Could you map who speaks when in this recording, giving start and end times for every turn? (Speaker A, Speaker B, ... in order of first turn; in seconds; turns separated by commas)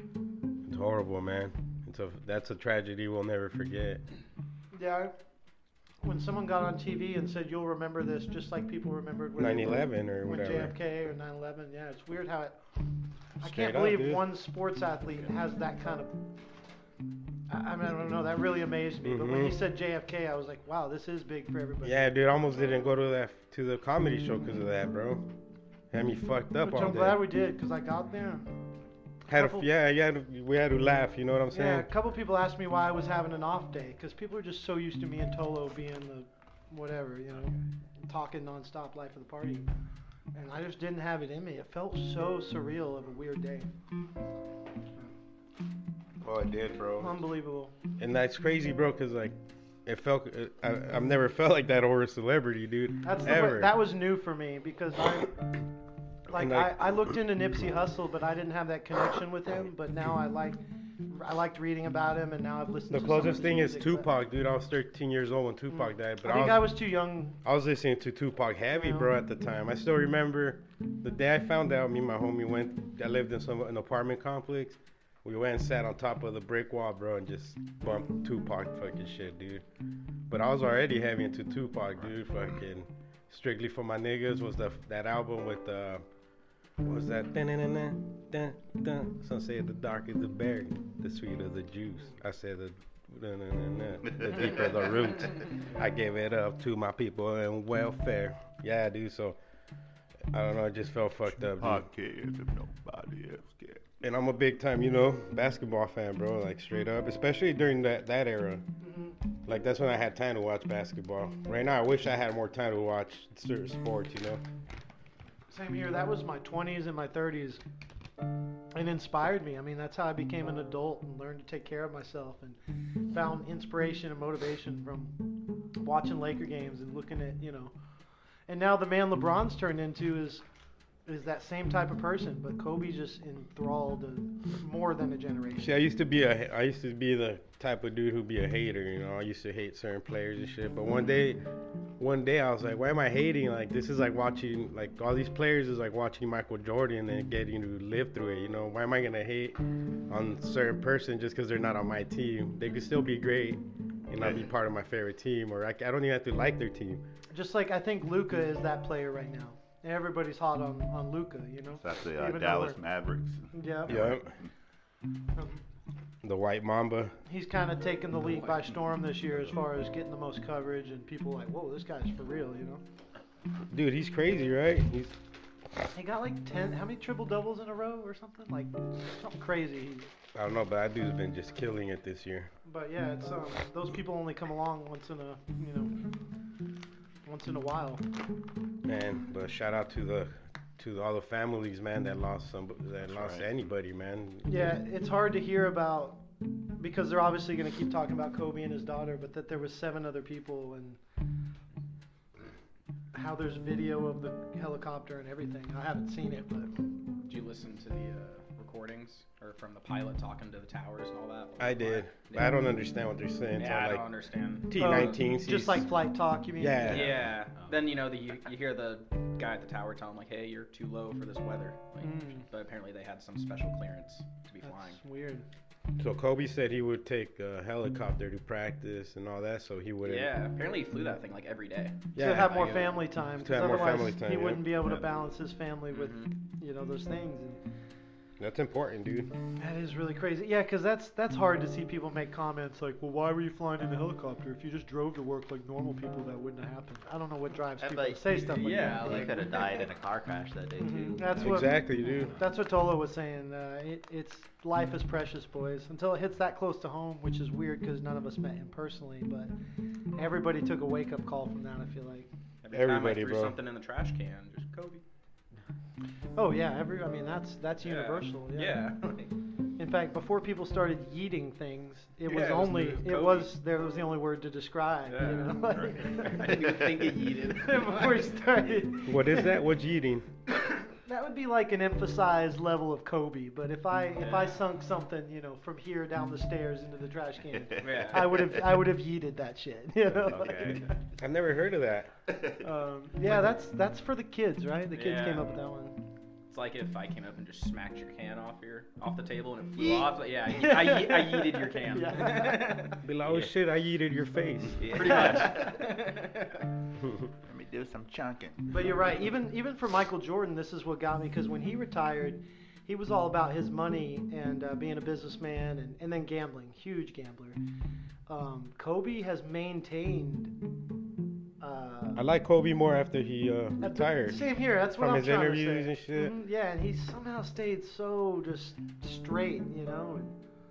Speaker A: 0.6-4.0, Speaker B: 4.7-5.2, Speaker B: 6.0-12.6, Speaker A: 9.4-10.7, Speaker A: 13.4-14.3, Speaker B: 13.4-16.1, Speaker B: 17.5-22.1, Speaker A: 19.0-19.6, Speaker A: 21.8-25.3, Speaker A: 25.9-27.3, Speaker B: 26.6-28.5, Speaker A: 29.3-31.9, Speaker B: 29.3-29.7, Speaker B: 31.5-37.5, Speaker B: 38.1-39.7, Speaker B: 40.3-43.7, Speaker A: 46.2-47.2, Speaker B: 47.0-47.7, Speaker A: 48.0-49.4, Speaker A: 49.9-53.8, Speaker B: 53.0-55.4, Speaker B: 56.3-64.1, Speaker A: 56.3-57.0, Speaker A: 62.9-66.8, Speaker B: 65.7-67.4, Speaker A: 67.4-79.6, Speaker B: 68.7-69.1, Speaker A: 80.3-86.0, Speaker A: 86.8-99.4, Speaker A: 100.3-101.9, Speaker C: 101.5-103.8, Speaker A: 104.0-108.6, Speaker B: 108.8-109.2, Speaker A: 109.5-114.4, Speaker B: 115.5-117.6, Speaker B: 118.7-125.2, Speaker B: 125.8-127.7, Speaker B: 128.5-130.4, Speaker B: 131.1-135.7, Speaker A: 135.6-141.4, Speaker A: 142.0-157.0, Speaker C: 154.2-154.4, Speaker B: 157.3-162.8, Speaker C: 161.8-164.2, Speaker B: 163.5-164.2, Speaker A: 163.9-164.3, Speaker B: 165.4-165.6, Speaker A: 166.2-167.2, Speaker B: 167.3-172.8, Speaker A: 173.7-175.2, Speaker B: 175.9-180.1, Speaker A: 180.3-182.5, Speaker B: 182.7-185.9, Speaker B: 187.2-188.1, Speaker A: 188.8-194.7, Speaker C: 193.1-193.5, Speaker B: 194.4-196.2, Speaker B: 196.8-201.0, Speaker B: 203.1-206.7, Speaker D: 207.2-212.6, Speaker A: 211.6-214.1, Speaker D: 213.6-215.2, Speaker A: 214.7-215.9, Speaker B: 214.8-217.2, Speaker A: 216.6-217.2, Speaker D: 216.9-225.0, Speaker B: 222.0-222.4, Speaker B: 224.6-225.4, Speaker A: 226.0-230.4, Speaker D: 230.0-233.0, Speaker A: 232.2-232.7, Speaker B: 232.2-237.6, Speaker A: 233.4-234.9, Speaker D: 235.9-236.3, Speaker A: 238.4-239.3, Speaker B: 239.6-249.5, Speaker E: 247.8-252.3, Speaker D: 248.4-249.8, Speaker B: 250.8-259.5, Speaker A: 251.4-252.3, Speaker B: 260.1-262.3, Speaker D: 262.6-265.0, Speaker A: 262.7-263.6, Speaker B: 266.4-269.0, Speaker D: 267.8-269.3, Speaker B: 269.8-276.9, Speaker D: 272.3-273.6, Speaker D: 275.1-278.3, Speaker B: 277.5-279.7, Speaker A: 279.1-280.3, Speaker B: 280.6-290.9, Speaker D: 284.2-284.6, Speaker C: 287.8-288.0, Speaker D: 287.8-288.5, Speaker E: 290.3-290.8, Speaker A: 291.2-292.1, Speaker B: 292.6-296.0, Speaker D: 294.9-295.5, Speaker D: 296.5-303.1, Speaker B: 299.8-302.9, Speaker A: 303.0-305.1, Speaker D: 304.8-306.7, Speaker E: 304.8-305.6, Speaker B: 305.1-305.4, Speaker C: 307.4-308.7, Speaker B: 308.7-317.6, Speaker B: 318.3-320.5, Speaker B: 321.6-322.2, Speaker A: 322.2-326.3, Speaker B: 323.8-330.4